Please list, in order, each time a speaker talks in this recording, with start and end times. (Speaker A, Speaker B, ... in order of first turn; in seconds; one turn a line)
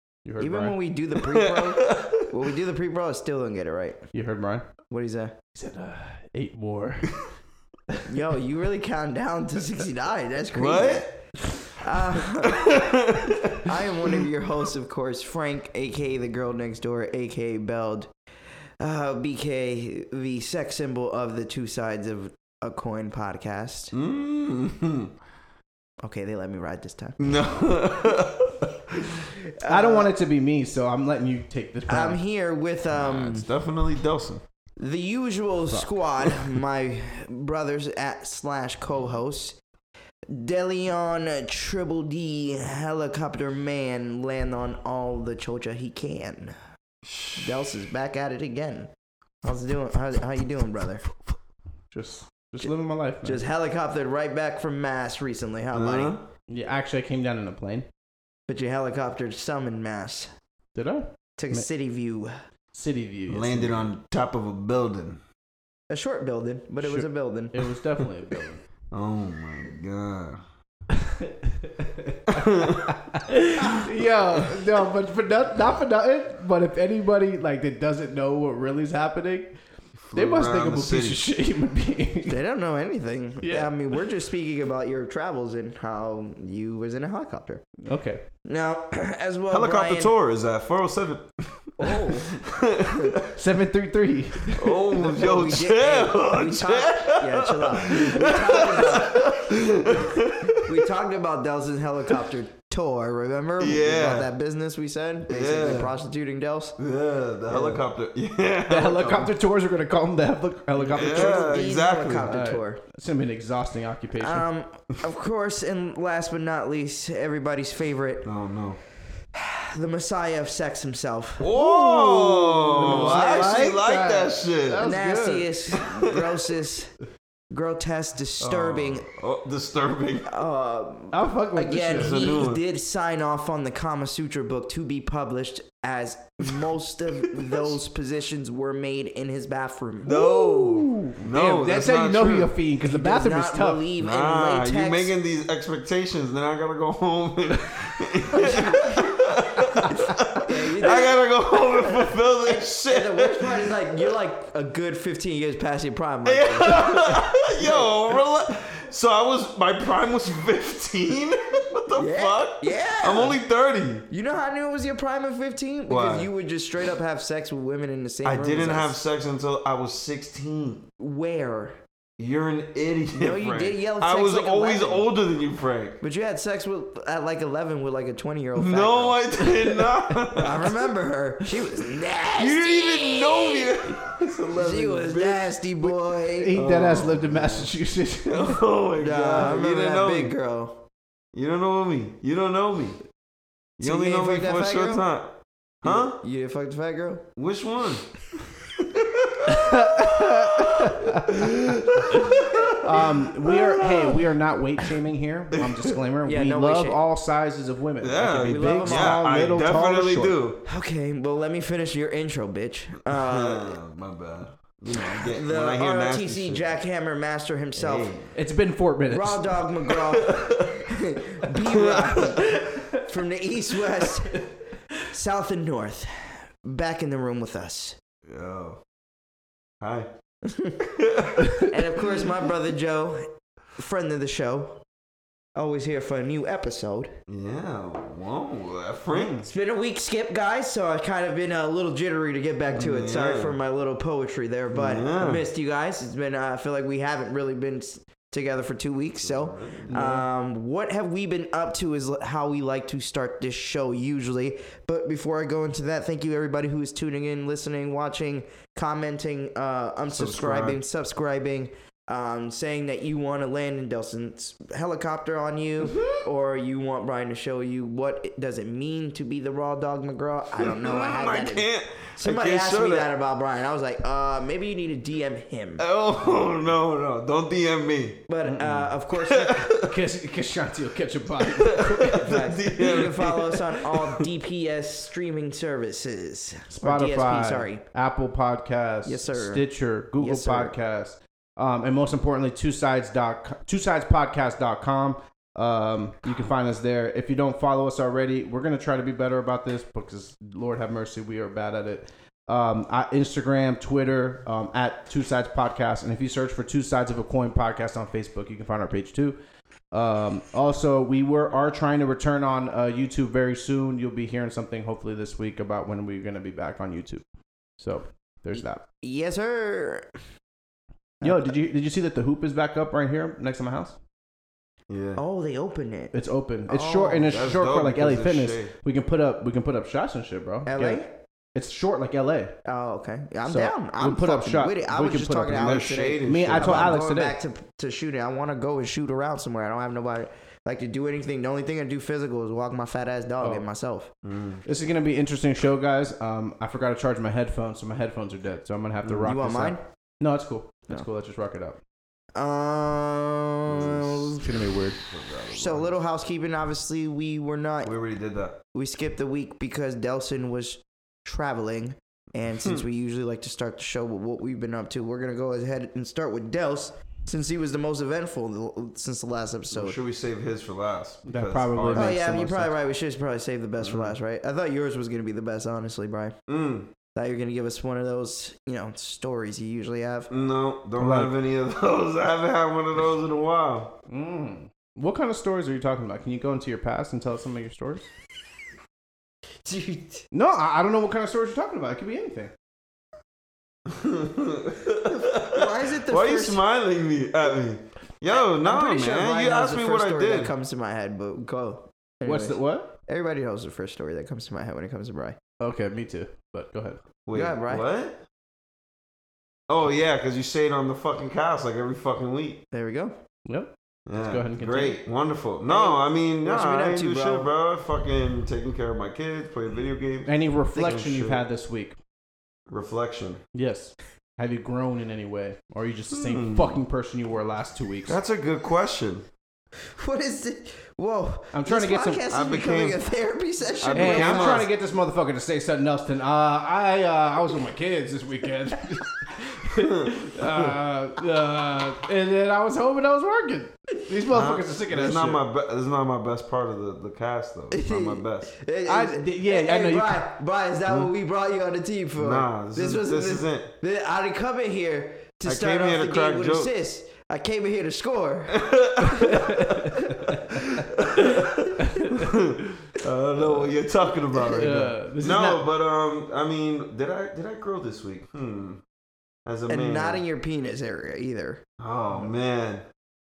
Speaker A: 0.2-0.8
Speaker B: 0.4-4.0
Speaker C: 1.3-2.3
Speaker A: 4.1-4.7
Speaker B: 4.9-5.4
Speaker A: 5.5-7.3
Speaker B: 8.1-18.1
Speaker C: 10.5-11.1
Speaker C: 12.4-14.2
Speaker B: 18.8-23.9
Speaker C: 23.9-25.1
Speaker B: 26.0-27.2
Speaker C: 27.2-29.2
Speaker B: 29.6-30.1
Speaker A: 29.6-32.2
Speaker B: 31.9-33.5
Speaker C: 32.9-34.4
Speaker B: 34.8-39.6
Speaker B: 40.3-46.6
Speaker C: 47.0-47.7
Speaker B: 47.4-48.9
Speaker B: 49.4-51.0
Speaker A: 51.9-53.4
Speaker B: 53.2-56.1
Speaker C: 55.7-56.3
Speaker A: 56.5-57.9
Speaker B: 58.5-60.3
Speaker A: 60.8-61.7
Speaker B: 61.4-62.3
Speaker A: 62.7-63.9
Speaker C: 63.3-65.2
Speaker B: 65.9-67.6
Speaker A: 66.8-68.6
Speaker C: 68.9-70.4
Speaker A: 71.0-79.6
Speaker C: 72.3-73.0
Speaker C: 80.1-81.3
Speaker A: 80.1-82.4
Speaker B: 82.3-87.6
Speaker A: 83.4-83.8
Speaker A: 87.8-88.2
Speaker B: 88.5-90.1
Speaker C: 89.5-93.3
Speaker B: 91.8-93.2
Speaker A: 93.3-94.8
Speaker C: 94.5-100.9
Speaker B: 95.0-99.3
Speaker B: 100.6-106.8
Speaker C: 103.6-104.3
Speaker C: 105.3-105.9
Speaker C: 106.8-109.3
Speaker B: 107.5-107.8
Speaker A: 108.7-111.6
Speaker B: 110.8-112.8
Speaker C: 111.0-112.3
Speaker A: 112.2-114.5
Speaker B: 114.2-118.3
Speaker C: 118.2-118.8
Speaker B: 119.3-121.5
Speaker C: 121.4-124.9
Speaker A: 121.5-125.5
Speaker B: 122.8-123.7
Speaker B: 124.8-126.9
Speaker C: 125.8-126.2
Speaker B: 127.5-129.1
Speaker C: 128.4-130.3
Speaker B: 130.3-140.1
Speaker A: 131.1-132.4
Speaker C: 132.0-132.6
Speaker C: 137.3-137.7
Speaker C: 140.0-142.6
Speaker A: 140.1-143.9
Speaker B: 142.8-145.1
Speaker C: 144.0-153.7
Speaker B: 148.3-149.2
Speaker B: 149.8-157.9
Speaker C: 156.2-164.1
Speaker B: 161.9-163.4
Speaker B: 164.1-169.0
Speaker C: 165.9-166.3
Speaker C: 168.2-170.9
Speaker B: 171.0-171.8
Speaker C: 172.2-176.0
Speaker B: 173.2-175.1
Speaker B: 176.0-179.5
Speaker C: 178.6-180.8
Speaker B: 180.3-183.9
Speaker C: 182.4-185.9
Speaker B: 184.6-186.6
Speaker A: 186.4-188.6
Speaker C: 186.5-187.7
Speaker C: 188.2-190.3
Speaker B: 189.0-190.8
Speaker C: 191.3-193.0
Speaker B: 193.8-195.1
Speaker C: 193.8-196.2
Speaker B: 195.8-197.3
Speaker C: 197.4-198.1
Speaker C: 198.8-204.2
Speaker A: 199.5-202.3
Speaker A: 202.8-210.4
Speaker C: 205.5-206.0
Speaker B: 206.2-207.0
Speaker C: 208.0-210.6
Speaker B: 208.5-209.2
Speaker B: 210.7-213.7
Speaker C: 213.1-216.8
Speaker B: 215.0-218.2
Speaker C: 217.8-218.3
Speaker A: 218.3-219.6
Speaker B: 219.1-224.4
Speaker C: 219.9-220.9
Speaker C: 221.4-222.9
Speaker B: 225.0-228.0
Speaker C: 228.3-228.8
Speaker C: 229.8-230.1
Speaker B: 230.4-230.8
Speaker C: 230.8-231.8
Speaker B: 231.5-234.8
Speaker B: 235.6-237.2
Speaker C: 237.3-239.5
Speaker B: 239.2-275.8
Speaker C: 242.7-243.6
Speaker C: 244.7-245.4
Speaker C: 249.2-250.3
Speaker C: 260.1-260.8
Speaker C: 265.8-266.2
Speaker C: 270.6-273.1
Speaker C: 275.8-278.2
Speaker B: 278.3-279.7
Speaker A: 278.5-278.9
Speaker C: 279.3-280.0
Speaker A: 279.8-282.4
Speaker C: 281.4-284.2
Speaker B: 282.2-287.8
Speaker A: 286.8-309.4
Speaker B: 289.1-289.6
Speaker B: 290.2-290.8
Speaker A: 309.9-317.2
Speaker A: 317.8-318.8
Speaker B: 319.0-320.1
Speaker B: 321.2-321.5
Speaker A: 321.2-324.0
Speaker C: 324.9-325.2
Speaker B: 325.2-326.1
Speaker A: 326.1-331.0
Speaker B: 326.7-327.4
Speaker C: 327.3-328.7
Speaker B: 330.7-331.1
Speaker A: 331.6-332.6
Speaker B: 332.6-344.1
Speaker A: 333.4-337.4
Speaker C: 335.5-337.0
Speaker C: 344.2-344.6
Speaker A: 344.6-351.8
Speaker B: 349.1-349.8
Speaker B: 352.4-354.5
Speaker C: 353.7-356.0
Speaker A: 354.3-355.0
Speaker B: 355.5-358.0
Speaker C: 357.8-358.6
Speaker B: 358.7-370.0
Speaker C: 369.7-372.2
Speaker A: 371.3-372.7
Speaker B: 371.9-376.4
Speaker C: 373.8-374.2
Speaker C: 376.5-376.9
Speaker B: 377.1-380.3
Speaker C: 380.3-383.9
Speaker A: 381.0-381.3
Speaker A: 384.1-388.1
Speaker B: 389.6-390.3
Speaker A: 390.3-392.5
Speaker C: 393.9-400.5
Speaker B: 395.1-396.6
Speaker B: 398.3-405.4
Speaker A: 402.2-402.9
Speaker A: 405.6-407.0
Speaker C: 407.3-408.2
Speaker B: 407.3-407.9
Speaker C: 409.7-412.6
Speaker B: 412.7-413.2
Speaker A: 413.5-415.0
Speaker C: 414.1-421.4
Speaker B: 415.7-417.5
Speaker A: 420.3-422.0
Speaker C: 422.7-423.4
Speaker A: 423.5-428.2
Speaker C: 426.1-426.8
Speaker C: 428.1-429.2
Speaker B: 429.9-434.7
Speaker A: 431.5-432.2
Speaker C: 432.3-433.0
Speaker C: 433.8-434.7
Speaker A: 433.9-445.4
Speaker C: 439.7-440.7
Speaker C: 444.3-448.6
Speaker B: 447.7-459.7
Speaker A: 448.9-450.2
Speaker C: 452.2-453.7
Speaker C: 455.4-456.7
Speaker C: 458.5-468.8
Speaker A: 459.2-460.4
Speaker A: 461.2-462.3
Speaker A: 463.4-463.8
Speaker A: 464.4-465.6
Speaker C: 469.5-470.2
Speaker B: 469.7-471.6
Speaker C: 471.8-472.9